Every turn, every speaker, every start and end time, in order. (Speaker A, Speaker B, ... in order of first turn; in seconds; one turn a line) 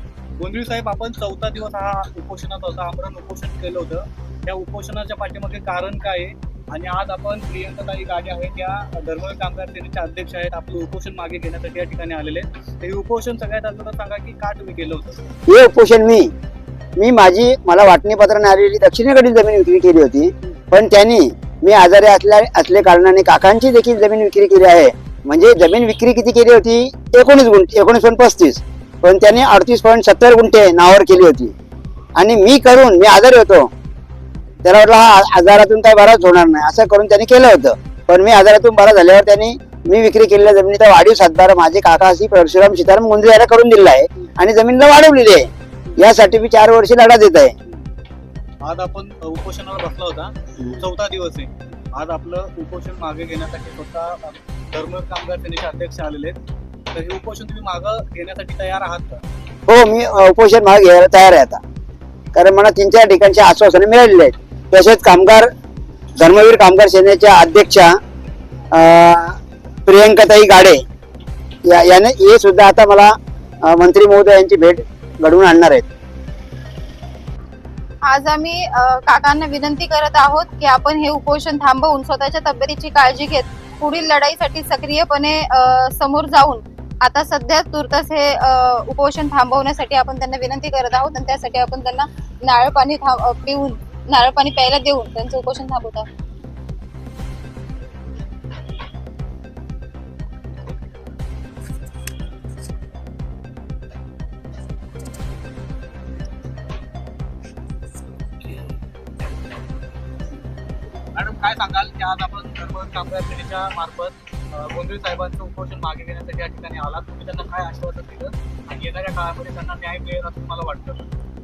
Speaker A: 0.4-15.2
Speaker B: 15.5-16.3
Speaker B: 17.0-31.5
Speaker B: 32.2-33.7
Speaker B: 34.6-47.5
Speaker A: 48.6-56.4
Speaker A: 56.9-59.2
Speaker B: 59.7-61.6
Speaker B: 62.3-65.5
Speaker B: 66.2-67.9
Speaker B: 68.7-70.8
Speaker B: 71.6-75.8
Speaker C: 78.0-96.1
Speaker A: 111.1-121.1